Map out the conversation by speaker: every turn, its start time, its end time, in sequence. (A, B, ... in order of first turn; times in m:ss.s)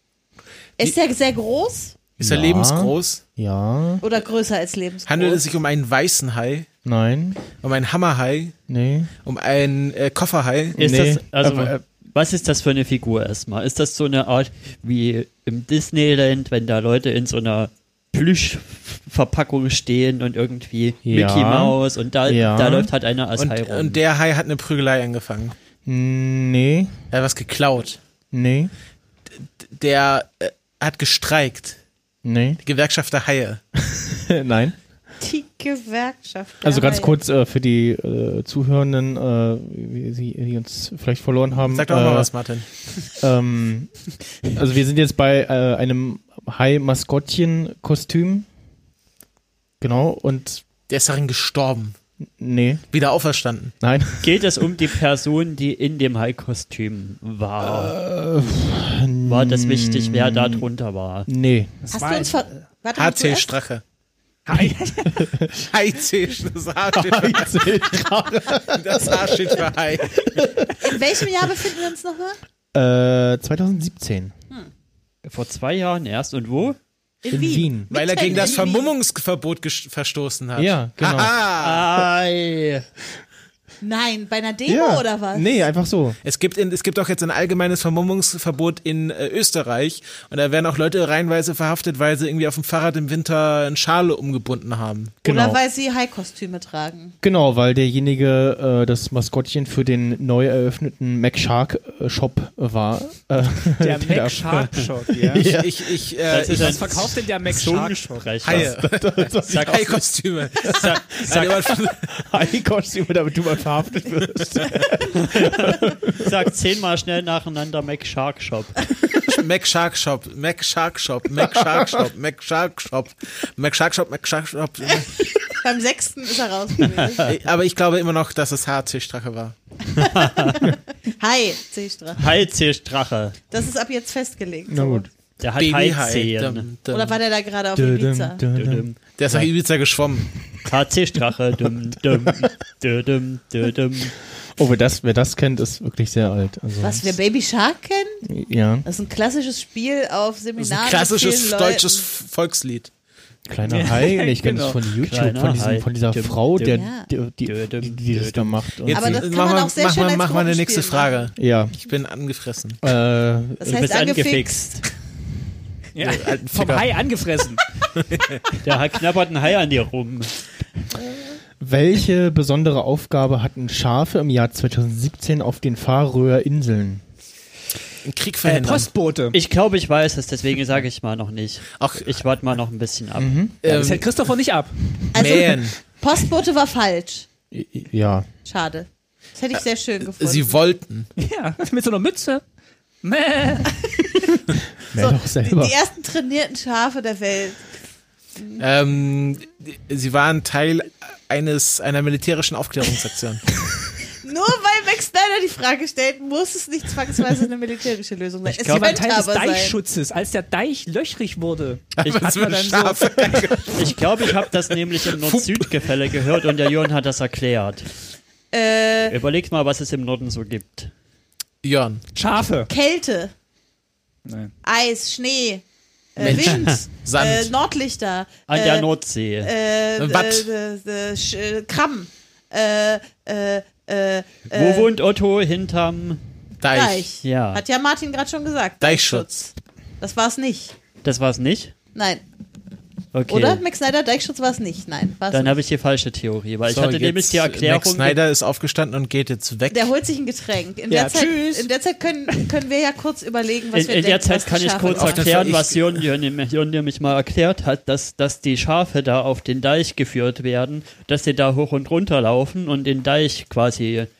0:00.8-0:02.0 A
0:02.2-0:03.2 B
0:02.2-0:04.0 C
0:04.0-0:05.6 A
0:05.1-0:06.7 B
0:06.8-0:07.4 C
0:07.6-0:08.5 B
0:08.7-0:09.1 C
0:09.2-0:10.8 B
0:10.8-0:11.8 C
0:10.8-0:24.0 D
0:21.0-0:22.9 C
0:23.4-0:25.5 B
0:25.8-0:26.9 C
0:27.1-0:28.0 B
0:28.3-0:28.7 C
0:29.6-0:31.8 B
0:32.2-0:32.6 C
0:32.6-0:33.6 B
0:33.8-0:34.8 C
0:35.2-0:37.2 A
0:36.6-0:42.3 C
0:41.6-0:42.7 B
0:43.1-0:43.9 C
0:44.4-0:48.5 C
0:49.8-0:50.6 C
0:50.9-0:52.0 B
0:52.4-0:52.8 C
0:52.9-0:53.7 B
0:53.8-0:54.5 C
0:54.2-0:58.0 D
0:57.6-1:00.6 C
0:59.2-1:01.3 D
1:01.3-1:01.7 C
1:01.8-1:02.4 E
1:01.9-1:03.5 A
1:02.9-1:03.8 B
1:04.5-1:05.3 E
1:04.6-1:05.6 C
1:05.6-1:07.8 B
1:06.9-1:09.7 C
1:08.7-1:10.3 B
1:10.2-1:10.9 C
1:10.8-1:12.4 A
1:12.7-1:14.3 C
1:15.2-1:16.8 D
1:17.2-1:18.9 A
1:17.3-1:17.9 C
1:17.9-1:21.8 B
1:20.6-1:21.3 C
1:21.6-1:22.8 D
1:23.8-1:25.5 A
1:24.7-1:26.2 C
1:26.2-1:35.2 B
1:35.2-1:35.6 C
1:35.2-1:37.1 A
1:37.2-1:45.9 C
1:43.8-1:45.5 E
1:45.4-1:47.1 B
1:46.3-1:48.8 D
1:46.4-1:48.4 E
1:48.4-1:52.1 B
1:48.5-1:50.0 C
1:49.5-1:49.8 D
1:50.6-1:56.5 C
1:50.6-1:51.7 D
1:55.2-1:58.8 D
1:59.2-2:05.1 B
2:01.4-2:02.1 C
2:05.0-2:07.3 A
2:07.2-2:09.6 B
2:09.9-2:12.2 A
2:10.1-2:10.6 D
2:12.2-2:13.4 D
2:13.5-2:15.1 A
2:14.7-2:15.1 C
2:15.4-2:16.7 D
2:15.6-2:17.2 B
2:16.9-2:18.4 A
2:17.8-2:18.9 C
2:18.5-2:19.5 D
2:19.2-2:20.3 B
2:20.6-2:24.1 D
2:22.1-2:22.5 C
2:24.6-2:27.1 C
2:26.8-2:28.2 A
2:28.2-2:28.8 C
2:28.8-2:32.0 A
2:30.6-2:32.9 B
2:33.5-2:39.2 C
2:33.7-2:34.8 E
2:35.0-2:36.8 D
2:36.7-2:37.1 A
2:37.4-2:38.6 D
2:38.8-2:42.8 B
2:38.9-2:41.3 A
2:41.4-2:41.7 C
2:42.8-2:43.8 C
2:43.6-2:44.8 A
2:43.6-2:44.8 D
2:45.9-2:47.6 E
2:46.0-2:46.8 B
2:46.5-2:46.8 C
2:48.0-2:48.4 B
2:48.6-2:50.4 D
2:51.6-2:57.0 C
2:58.0-2:58.9 B
2:58.4-2:59.4 E
2:59.3-3:03.4 D
3:01.8-3:02.1 B
3:03.2-3:03.6 C
3:03.6-3:04.1 B
3:03.7-3:04.7 E
3:05.1-3:07.3 A
3:05.1-3:05.8 B
3:07.5-3:08.3 C
3:08.4-3:10.6 A
3:10.2-3:11.1 B
3:11.2-3:12.4 E
3:13.0-3:14.2 E
3:14.9-3:15.7 C
3:14.9-3:17.6 A
3:18.6-3:23.5 B
3:24.2-3:29.8 A
3:28.5-3:29.0 D
3:28.6-3:33.4 E
3:32.0-3:34.5 B
3:32.0-3:32.4 D
3:33.6-3:37.9 D
3:35.1-3:35.7 B
3:38.5-3:39.2 A
3:39.1-3:40.9 D
3:41.6-3:42.0 B
3:42.1-3:42.7 E
3:42.7-3:43.3 A
3:44.2-3:44.5 E
3:44.6-3:45.6 A
3:46.1-3:48.9 A
3:46.2-3:47.5 B
3:46.2-3:46.6 D
3:48.5-3:49.5 D
3:49.4-3:54.9 A
3:50.0-3:50.5 B
3:54.5-3:56.2 D
3:56.6-3:57.1 B
3:56.7-4:00.7 A
3:57.2-3:57.6 D
3:58.8-3:59.3 B
4:01.0-4:01.7 D
4:01.9-4:02.2 A
4:03.1-4:03.6 D
4:03.3-4:05.6 A
4:05.3-4:08.2 D
4:06.7-4:09.9 B
4:09.7-4:15.2 A
4:10.9-4:11.7 E
4:13.7-4:24.1 D
4:14.9-4:16.0 B